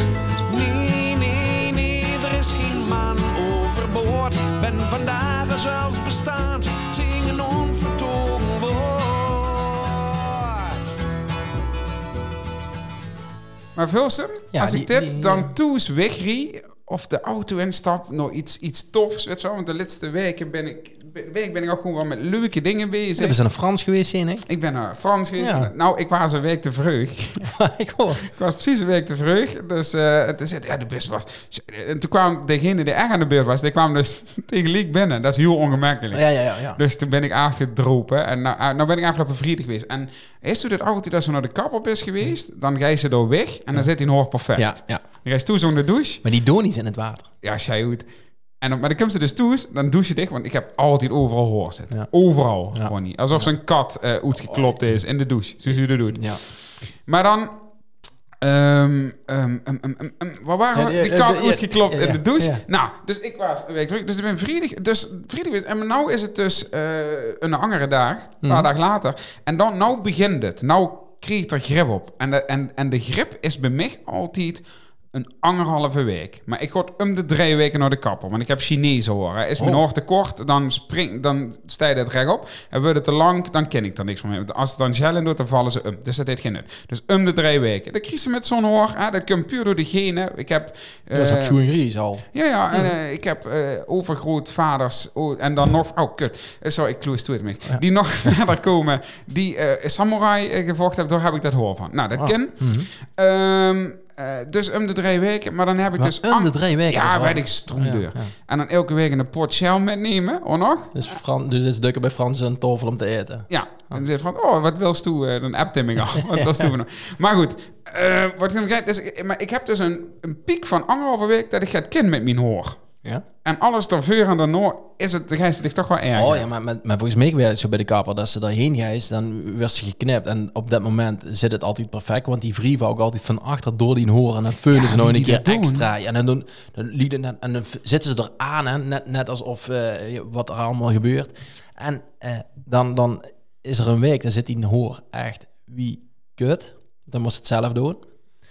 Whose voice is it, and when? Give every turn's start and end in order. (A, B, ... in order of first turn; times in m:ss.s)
0:00.4-0:10.9 A
0:13.7-0:23.4 B
0:14.5-0:15.5 C
0:23.2-0:24.4 C
0:24.4-0:27.5 B
0:25.4-0:25.7 C
0:27.4-0:28.2 C
0:28.2-0:46.2 B
0:36.1-0:36.8 C
0:44.5-0:45.0 C
0:46.2-0:47.3 C
0:47.4-0:48.1 B
0:48.6-0:57.6 B
0:52.7-0:53.5 C
0:56.1-0:56.4 C
0:58.4-1:31.6 B
1:00.7-1:02.6 C
1:08.4-1:08.7 C
1:31.1-1:32.9 C
1:32.3-1:51.1 B
1:42.2-1:42.9 C
1:46.0-1:48.3 C
1:50.9-1:54.0 C
1:53.5-2:02.8 B
1:56.2-1:56.7 C
2:03.4-2:06.4 B
2:06.1-2:28.0 C
2:14.7-2:15.9 B